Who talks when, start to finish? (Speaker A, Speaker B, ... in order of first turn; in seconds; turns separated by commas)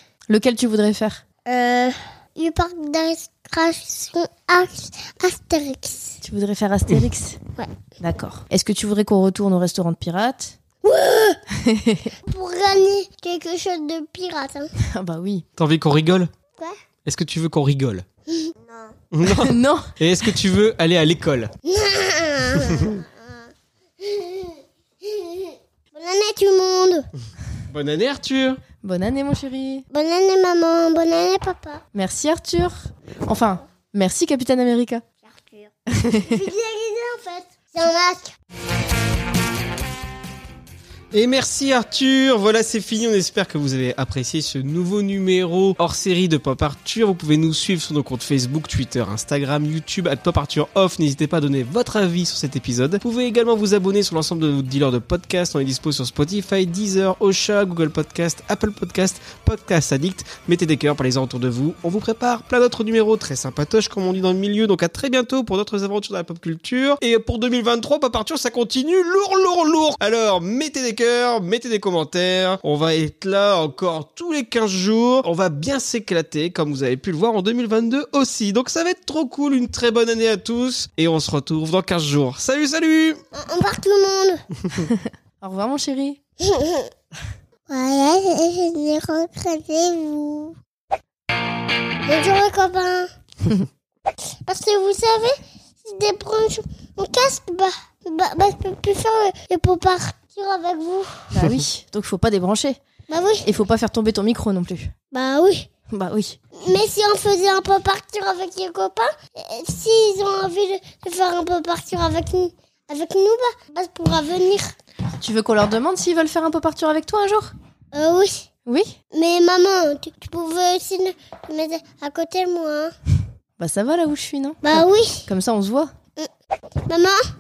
Speaker A: 0.3-1.2, Speaker B: 1.5-6.2, Speaker A: 6.2-7.4, Speaker A: 8.0-10.6, Speaker B: 10.8-11.4, Speaker A: 11.6-12.1, Speaker B: 12.3-14.7, Speaker A: 14.9-15.4, Speaker C: 15.6-16.3, Speaker C: 17.1-18.1, Speaker B: 18.3-18.9, Speaker C: 19.1-21.5, Speaker A: 19.2-19.9, Speaker B: 21.6-23.5, Speaker B: 24.0-27.1, Speaker C: 27.7-28.6, Speaker A: 28.8-29.9, Speaker B: 29.9-31.8, Speaker A: 31.9-32.8, Speaker A: 33.3-35.0, Speaker B: 35.2-38.4, Speaker C: 41.1-83.2, Speaker B: 83.3-84.4, Speaker A: 84.9-86.2, Speaker B: 86.4-86.9, Speaker B: 87.7-90.6, Speaker B: 92.1-93.1, Speaker B: 94.5-101.4, Speaker A: 101.3-102.8, Speaker B: 103.1-103.5, Speaker A: 103.5-104.9, Speaker B: 105.1-105.7, Speaker A: 105.9-106.4, Speaker B: 106.6-114.7, Speaker A: 115.2-117.5, Speaker B: 117.9-118.5, Speaker A: 118.7-118.9, Speaker B: 119.1-122.9, Speaker A: 123.6-125.9, Speaker B: 124.6-125.3, Speaker B: 126.9-127.2